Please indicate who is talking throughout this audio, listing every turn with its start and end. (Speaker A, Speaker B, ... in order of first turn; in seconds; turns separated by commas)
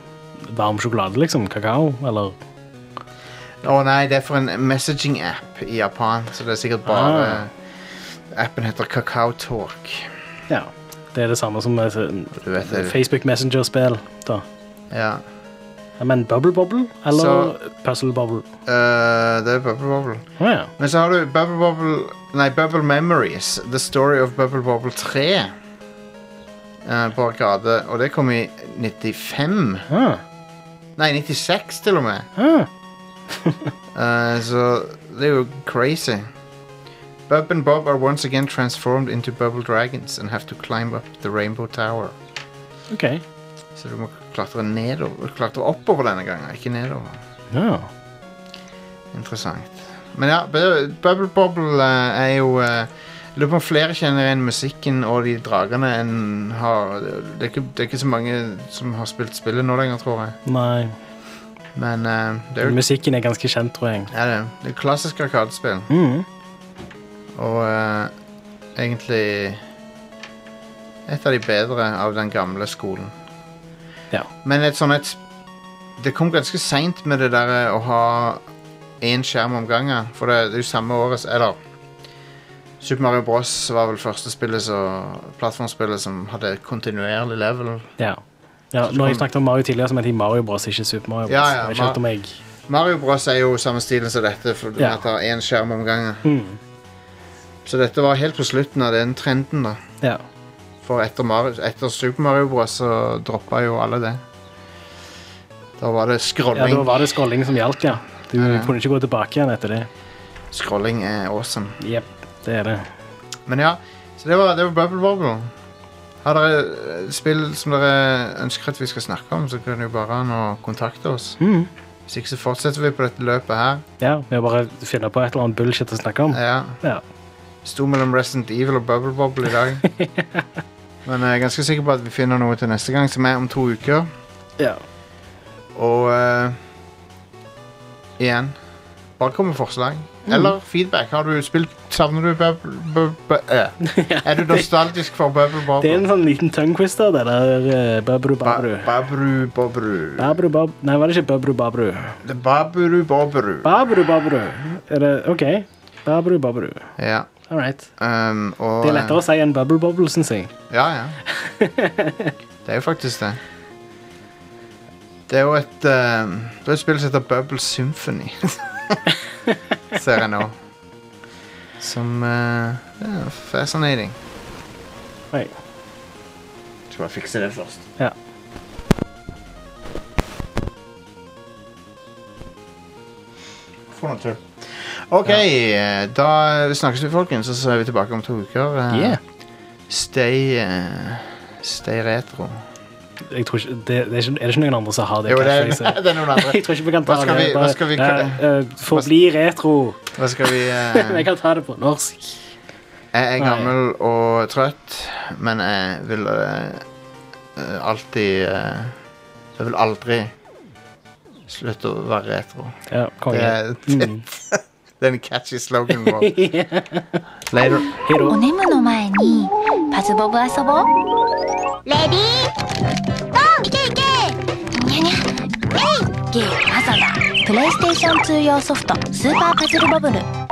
Speaker A: 0.4-2.4, Speaker B: 3.6-10.1, Speaker A: 6.8-7.4, Speaker A: 10.5-14.4, Speaker B: 12.3-13.0, Speaker B: 14.9-15.2, Speaker A: 16.0-18.4, Speaker B: 17.1-17.5, Speaker B: 18.6-20.2, Speaker A: 20.4-20.7, Speaker B: 20.8-25.5, Speaker B: 26.8-29.9, Speaker A: 29.9-30.2, Speaker B: 31.0-32.3, Speaker A: 32.4-32.7, Speaker A: 33.3-33.7, Speaker B: 33.9-36.3, Speaker B: 37.3-42.1, Speaker A: 42.9-43.2, Speaker B: 43.8-47.2, Speaker A: 47.5-47.9, Speaker B: 49.1-60.4, Speaker A: 60.4-61.0, Speaker B: 61.8-62.8, Speaker A: 62.6-64.1, Speaker B: 64.1-65.9, Speaker A: 65.9-66.2, Speaker B: 67.3-68.1, Speaker B: 68.8-69.6, Speaker B: 71.1-73.1, Speaker B: 74.4-75.2, Speaker B: 76.0-78.4, Speaker B: 79.0-81.6, Speaker B: 82.8-87.9, Speaker A: 88.7-92.4, Speaker B: 88.8-89.3, Speaker B: 91.3-92.0, Speaker B: 92.7-96.3, Speaker A: 96.2-96.6, Speaker B: 97.6-99.8, Speaker B: 100.8-104.2, Speaker B: 105.8-107.1, Speaker A: 106.5-109.9, Speaker B: 108.3-108.7, Speaker B: 110.5-111.8, Speaker A: 111.8-112.9, Speaker B: 113.5-115.5, Speaker B: 116.2-121.4, Speaker A: 121.4-121.7, Speaker B: 122.1-123.8, Speaker A: 124.0-127.0, Speaker B: 126.3-126.8, Speaker B: 127.6-129.8, Speaker A: 129.8-130.5, Speaker B: 131.0-134.1, Speaker B: 135.7-136.6, Speaker B: 138.2-138.6, Speaker B: 139.2-146.0, Speaker A: 140.3-140.5, Speaker A: 143.8-144.7, Speaker A: 145.8-148.9, Speaker B: 148.4-150.4, Speaker A: 150.2-152.2, Speaker B: 152.2-153.8, Speaker A: 153.6-156.9, Speaker B: 157.0-157.3, Speaker A: 157.5-157.9, Speaker B: 158.0-159.2, Speaker A: 158.8-160.5, Speaker B: 160.7-161.2, Speaker A: 161.3-162.3, Speaker B: 162.6-163.4, Speaker B: 165.3-169.1, Speaker B: 169.9-170.6, Speaker B: 171.8-174.2, Speaker B: 176.9-177.8, Speaker B: 183.9-189.2, Speaker A: 188.9-189.2, Speaker B: 189.9-192.6, Speaker A: 193.3-200.1, Speaker B: 195.2-199.1, Speaker B: 200.2-201.3, Speaker A: 200.6-202.4, Speaker B: 203.1-206.8, Speaker A: 203.4-203.7, Speaker B: 207.5-209.0, Speaker B: 209.6-210.3, Speaker B: 211.5-212.8, Speaker A: 212.9-214.2, Speaker B: 213.3-216.3, Speaker A: 215.9-217.2, Speaker B: 217.5-217.9, Speaker A: 217.9-218.4, Speaker C: 218.3-220.9, Speaker C: 221.8-222.5, Speaker C: 223.3-230.2